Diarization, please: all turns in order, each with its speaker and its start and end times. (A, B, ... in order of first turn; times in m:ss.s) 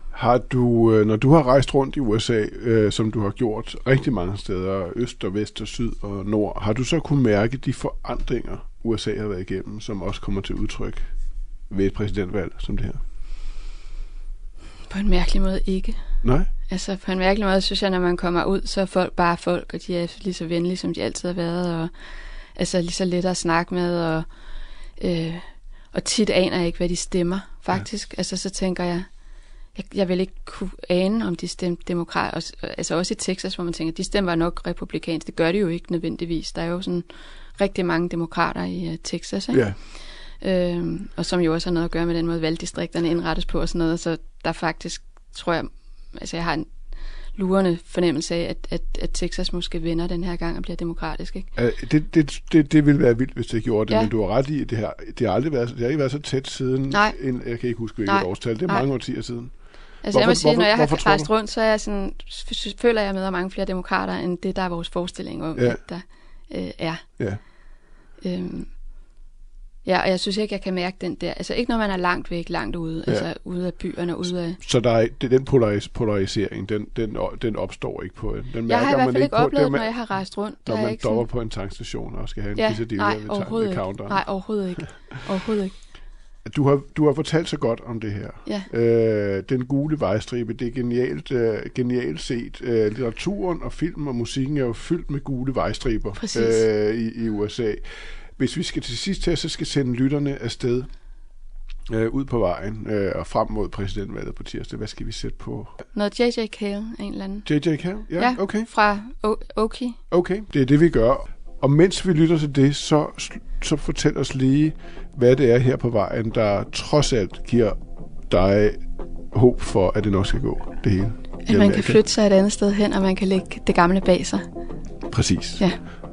0:00.1-0:11.0 A
0:11.7-0:13.0 A
0:14.9-0:16.0 B
0:16.2-0:16.5 A
0:16.7-0:21.9 B
0:22.6-0:24.3 B
0:25.0-0:29.1 B
0:29.7-0:39.7 B
0:40.4-0:46.7 B
0:47.3-0:51.5 B
0:51.6-0:59.5 A
0:56.9-0:57.2 B
0:58.0-0:58.9 B
1:00.0-1:07.0 B
1:00.1-1:01.3 A
1:05.6-1:05.8 A
1:08.2-1:08.7 B
1:09.8-1:14.6 B
1:14.6-1:19.9 A
1:18.7-1:21.3 B
1:20.6-1:24.2 A
1:22.6-1:25.8 B
1:26.4-1:37.8 A
1:36.2-1:36.6 B
1:38.4-1:40.9 A
1:41.9-1:45.7 A
1:45.9-1:47.5 B
1:47.4-1:48.7 A
1:48.2-1:50.0 B
1:50.1-1:57.8 A
1:58.3-1:58.8 A
1:59.3-2:02.0 A
2:01.4-2:04.4 B
2:05.1-2:05.7 A